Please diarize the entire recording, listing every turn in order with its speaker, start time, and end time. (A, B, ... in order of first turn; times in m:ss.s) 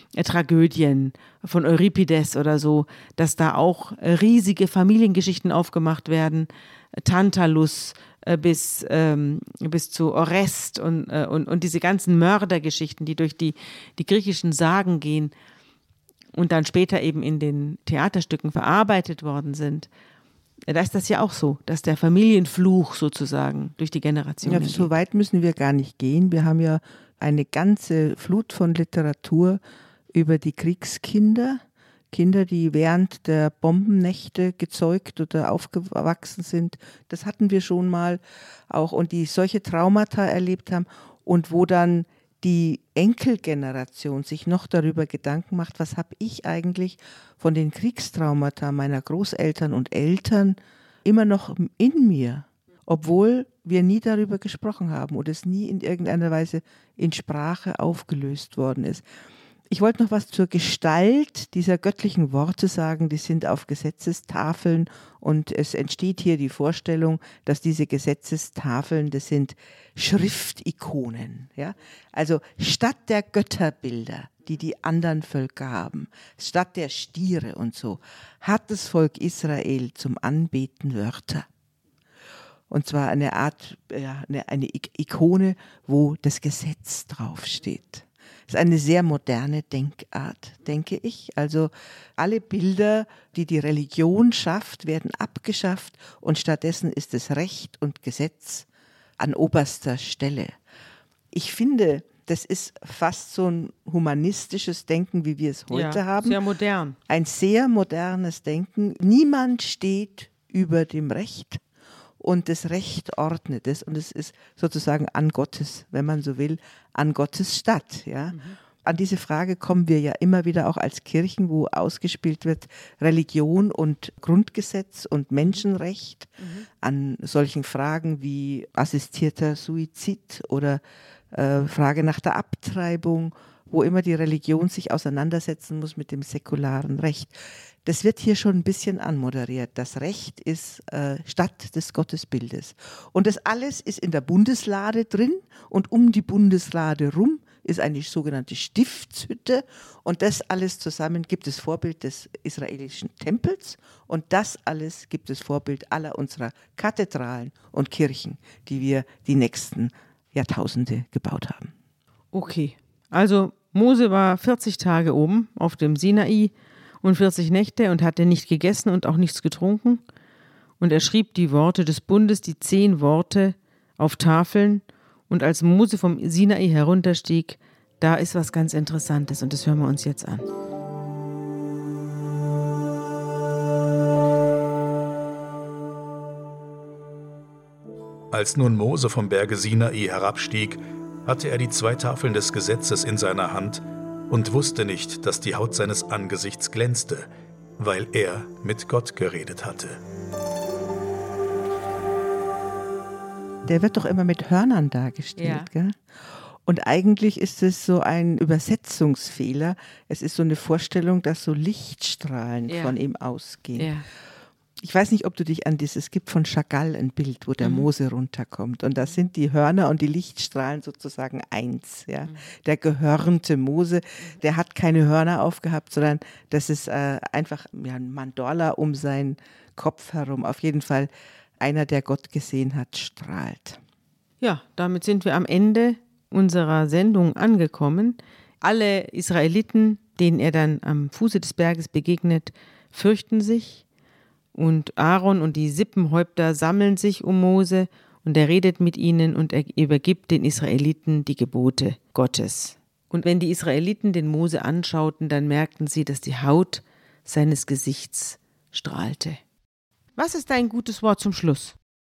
0:00.2-0:15.3 A
0:16.4-0:19.9 A
0:20.7-0:24.9 A
0:24.4-0:29.6 B
0:30.1-0:59.1 B
0:59.7-1:21.5 B
1:22.7-1:38.7 B
1:39.2-1:40.6 B
1:41.3-1:46.4 B
1:45.7-1:47.0 A
1:47.1-1:51.6 B
1:52.2-2:41.7 B
1:58.3-1:58.6 A
2:06.4-2:06.7 A
2:42.3-2:50.0 A
2:50.8-3:00.4 A
3:08.3-3:20.0 C
3:23.6-3:26.0 B
3:25.4-3:25.7 A
3:26.6-3:33.9 B
3:32.7-3:33.0 A
3:33.8-3:34.1 A
3:34.8-3:53.8 B
3:37.6-3:37.9 A
3:54.4-4:03.8 A
4:04.6-4:19.4 A
4:20.2-4:21.8 A